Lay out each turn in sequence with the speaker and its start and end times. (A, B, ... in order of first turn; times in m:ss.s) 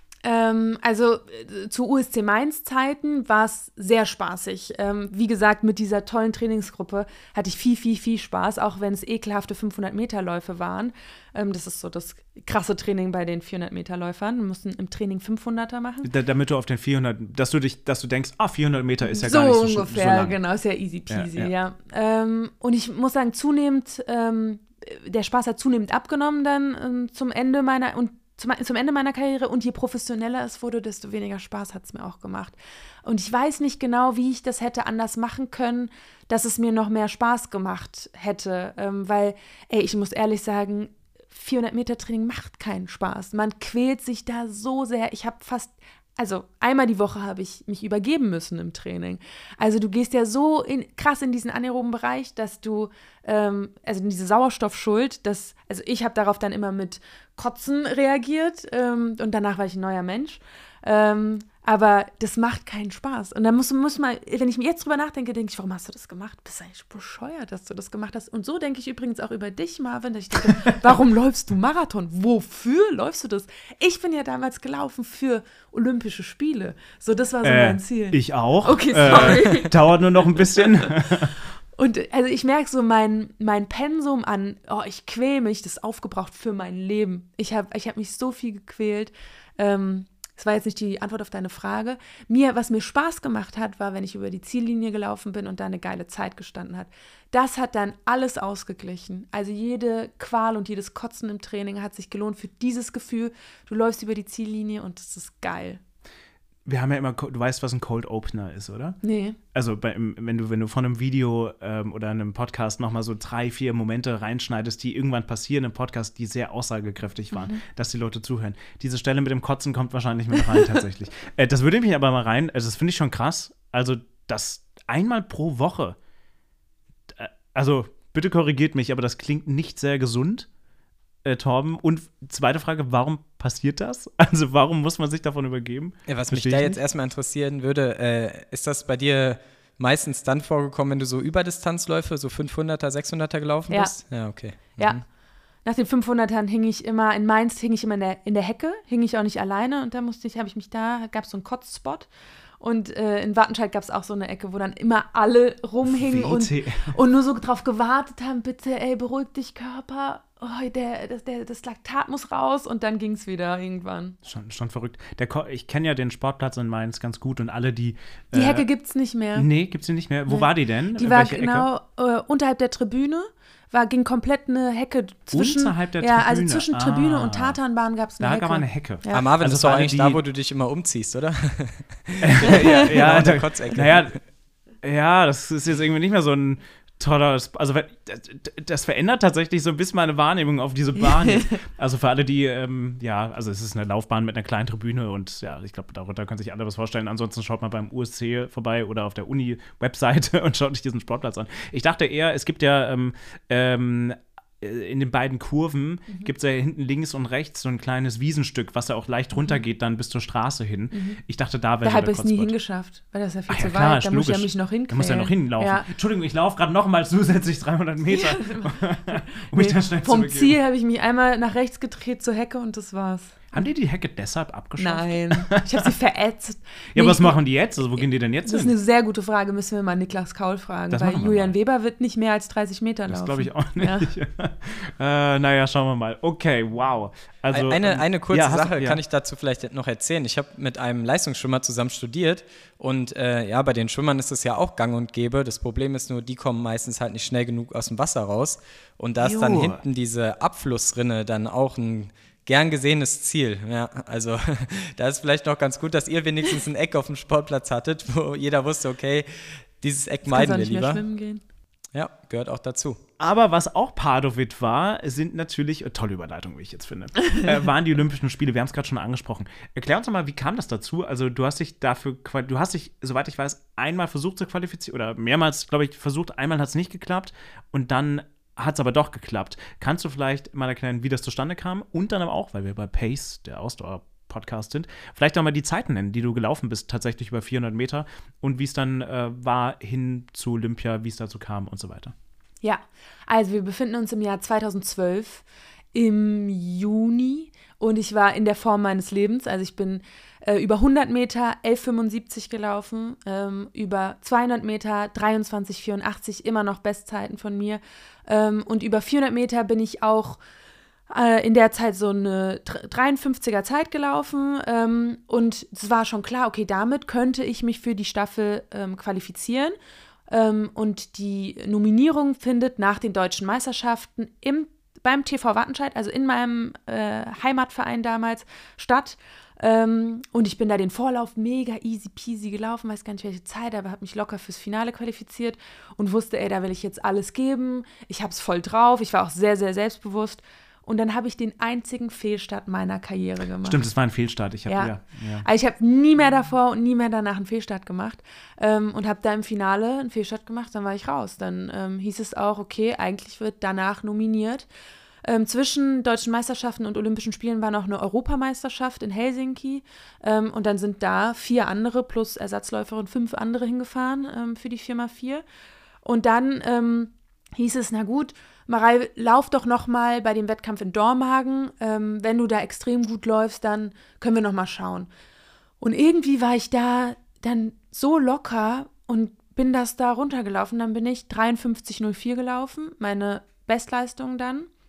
0:00.2-0:16.1 A
0:16.0-0:20.4 B
0:19.1-1:19.7 A
0:21.1-0:21.5 B
1:17.4-1:21.4 B
1:21.8-1:45.8 A
1:46.7-1:49.0 B
1:49.0-1:49.4 A
1:49.5-2:06.0 B
1:57.3-1:57.6 A
2:07.1-2:10.5 B
2:11.2-2:16.8 B
2:16.1-2:25.0 C
2:23.7-2:24.0 A
2:24.8-2:25.0 A
2:25.6-2:32.1 A
2:32.6-2:44.2 A
2:35.8-2:36.9 B
2:44.2-2:48.7 B
2:48.3-2:49.5 A
2:49.4-2:51.7 B
2:50.3-2:59.3 A
2:55.3-2:57.6 B
2:58.2-3:00.2 B
2:59.1-3:04.2 C
3:02.2-3:04.2 B
3:04.8-3:32.5 B
3:30.9-3:31.2 A
3:31.8-3:35.9 A
3:33.5-3:40.6 B
3:38.1-3:43.4 A
3:43.5-3:45.8 B
3:44.8-3:47.4 A
3:47.0-3:48.7 B
3:48.4-3:54.1 A
3:50.9-3:51.5 B
3:53.1-3:59.0 B
3:57.5-4:21.0 C
4:09.2-4:09.8 B
4:20.2-4:21.4 A
4:21.9-4:23.0 C
4:23.2-4:52.1 B
4:52.6-5:10.4 A
5:11.1-5:19.8 A
5:20.3-5:43.8 A
5:43.6-5:45.4 B
5:44.7-5:54.7 A
5:55.2-6:05.4 A
6:06.0-6:15.1 A
6:15.8-6:24.7 A